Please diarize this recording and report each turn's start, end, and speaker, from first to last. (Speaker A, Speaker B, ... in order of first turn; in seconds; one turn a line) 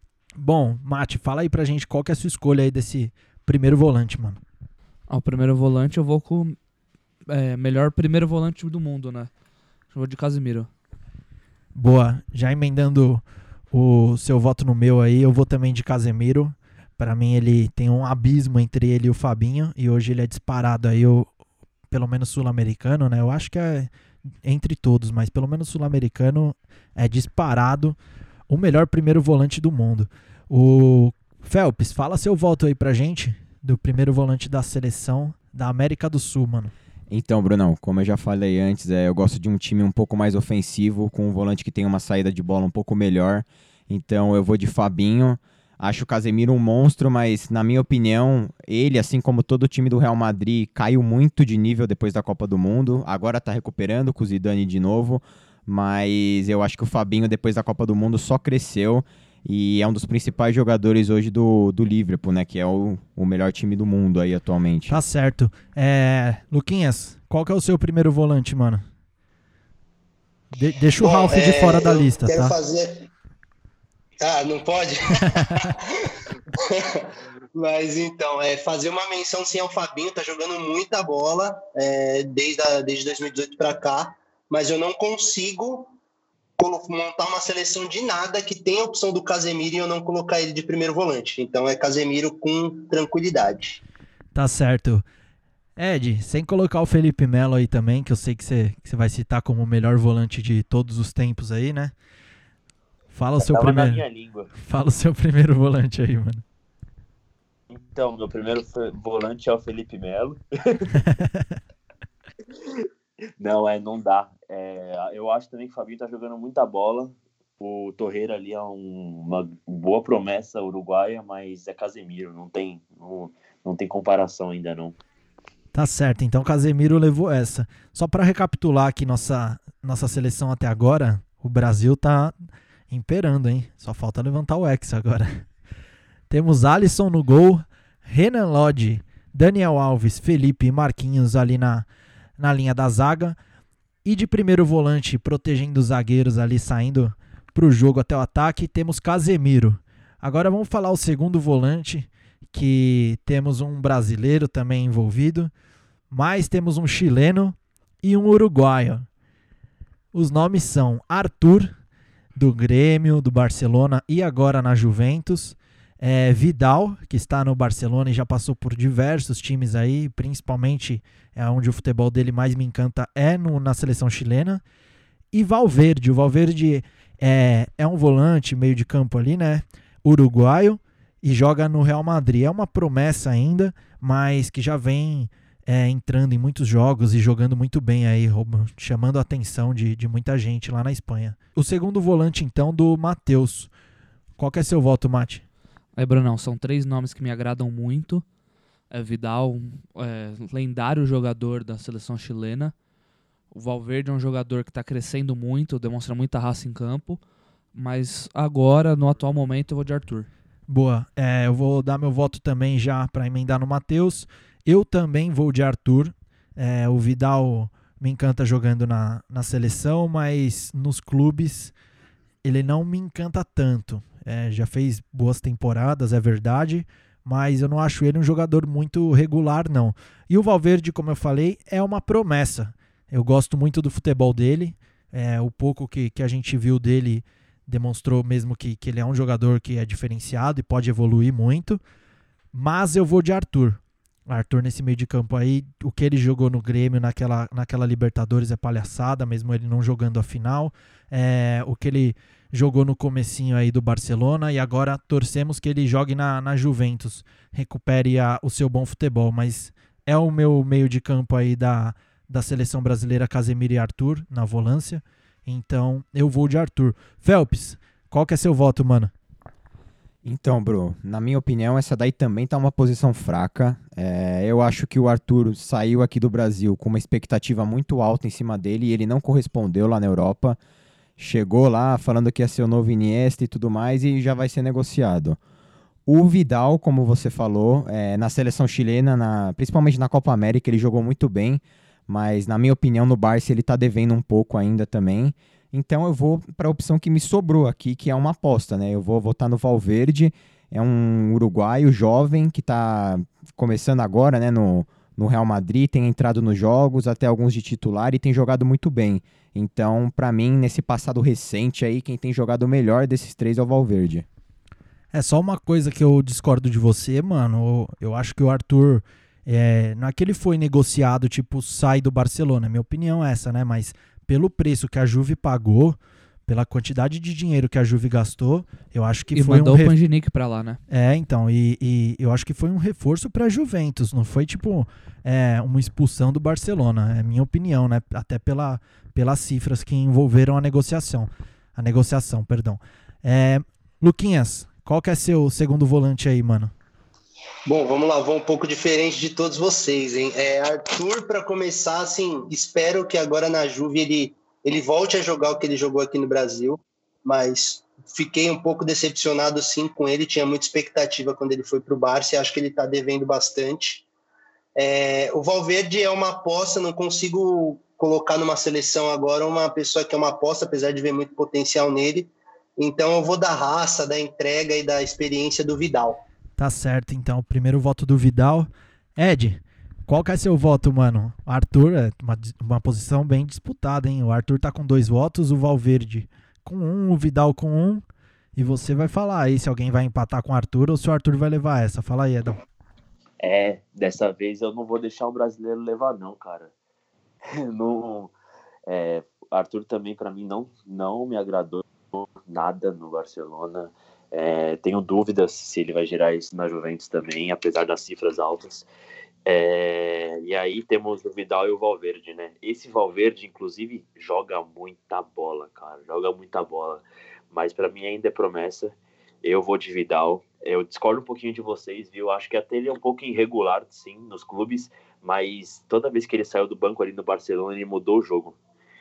Speaker A: 0.4-4.4
Speaker B: 5.1-6.5
Speaker B: 7.3-9.3
Speaker B: 9.9-10.7
Speaker A: 11.7-21.3
Speaker A: 21.9-23.9
Speaker A: 24.4-28.0
Speaker A: 28.5-36.7
Speaker C: 37.1-65.0
Speaker A: 64.9-68.8
Speaker A: 70.5-72.5
Speaker D: 71.0-73.1
Speaker D: 74.2-75.9
Speaker A: 75.3-75.7
Speaker D: 76.6-77.0
Speaker D: 77.5-85.9
Speaker D: 86.6-93.8
Speaker A: 94.3-95.0
Speaker A: 95.8-101.9
Speaker A: 103.1-104.0
Speaker E: 103.4-104.5
Speaker A: 104.6-106.4
Speaker E: 107.7-111.0
Speaker A: 111.1-111.5
Speaker E: 113.4-125.0
Speaker A: 125.7-132.3
Speaker A: 132.9-135.4
Speaker A: 136.3-141.9
Speaker A: 142.4-143.4
Speaker A: 144.0-155.5
Speaker A: 156.1-159.1
Speaker A: 160.1-161.7
Speaker A: 162.4-174.6
Speaker A: 175.3-193.7
Speaker A: 194.4-195.4
Speaker B: 196.0-198.2
Speaker B: 198.9-202.7
Speaker B: 203.5-207.2
Speaker B: 207.7-210.3
Speaker A: 210.7-221.7
Speaker A: 222.4-241.8
Speaker A: 242.5-269.1
Speaker C: 270.2-280.6
Speaker C: 281.2-285.4
Speaker C: 286.1-314.2
Speaker A: 315.1-329.9
Speaker B: 329.3-330.8
Speaker A: 330.9-346.7
Speaker D: 347.7-364.1
Speaker D: 364.8-376.2
Speaker A: 376.6-388.0
Speaker A: 388.6-392.6
Speaker E: 393.4-396.7
Speaker E: 397.5-398.3
Speaker E: 398.9-408.9
Speaker E: 409.4-428.6